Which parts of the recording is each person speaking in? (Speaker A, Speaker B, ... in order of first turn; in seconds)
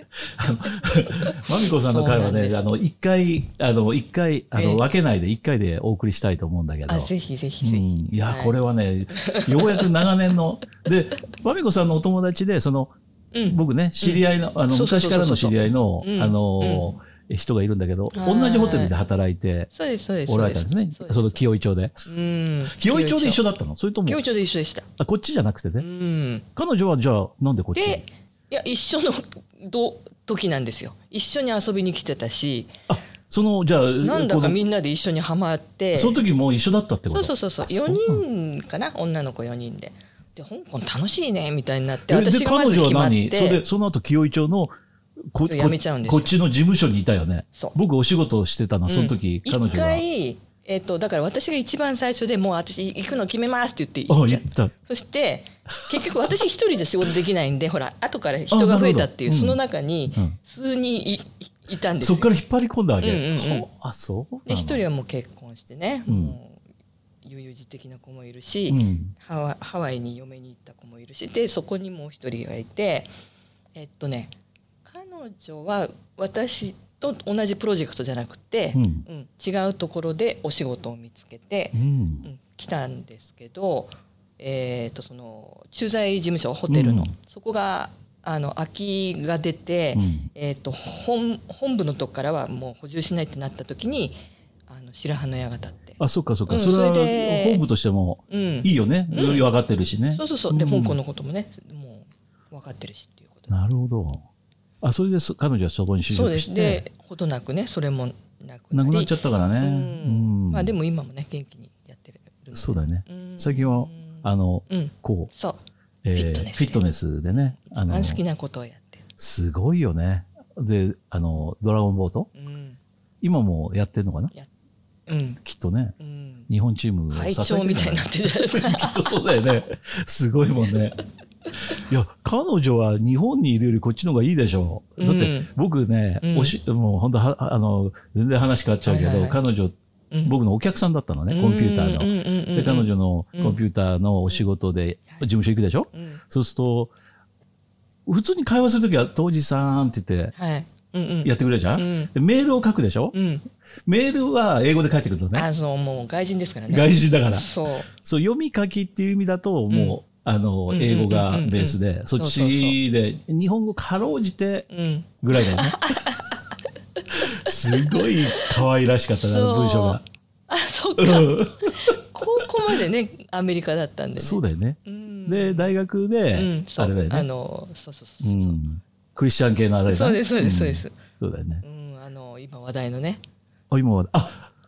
Speaker A: 0.4-7.1, 7.6-13.0, 13.5-19.7, 20.3-22.1, 22.7-24.2, 25.0-25.9, 26.6-28.0, 32.9-34.6, 35.9-38.2, 42.1-44.7, 45.3-50.0, 54.1-54.7, 55.9-56.3, 58.5-59.6, 62.0-64.8, 66.1-66.4, 68.7-69.1, 78.8-79.0, 81.7-82.3, 86.7-87.1, 90.0-90.3, 96.0-101.0, 103.5-104.2, 104.8-106.8, 108.7-110.7, 112.5-115.3, 116.0-118.2, 119.2-122.3, 123.2-124.3, 125.4-126.0, 126.5-131.0, 131.7-146.9, 148.1-150.3, 151.2-153.2, 153.9-155.5, 156.7-164.7, 165.2-165.9, 167.1-170.0, 171.0-172.8, 174.2-177.3, 178.2-181.6, 183.7-184.5
Speaker B: 1.0-2.7, 4.5-4.8, 6.9-8.6, 9.1-10.1, 13.3-16.9, 18.1-18.9, 19.7-23.4, 24.1-24.9, 25.8-26.5, 27.8-32.7, 34.0-36.2, 37.1-43.6, 45.5-46.4, 48.9-62.4, 63.0-63.7, 64.5-66.6, 67.2-73.1, 73.8-74.3, 74.8-97.7, 98.3-99.5, 100.1-103.5, 106.1-115.6, 116.1-116.8, 117.4-119.0, 122.3-122.8, 125.1-125.4, 126.0-126.5, 127.1-129.3, 135.0-135.5, 136.2-136.5, 138.8-139.4, 141.3-143.6, 145.9-146.2, 150.3-152.1, 153.1-153.4, 155.3-157.9, 159.7-160.0, 160.7-162.8, 164.7-175.7, 176.3-178.6, 179.9-181.0, 181.6-183.2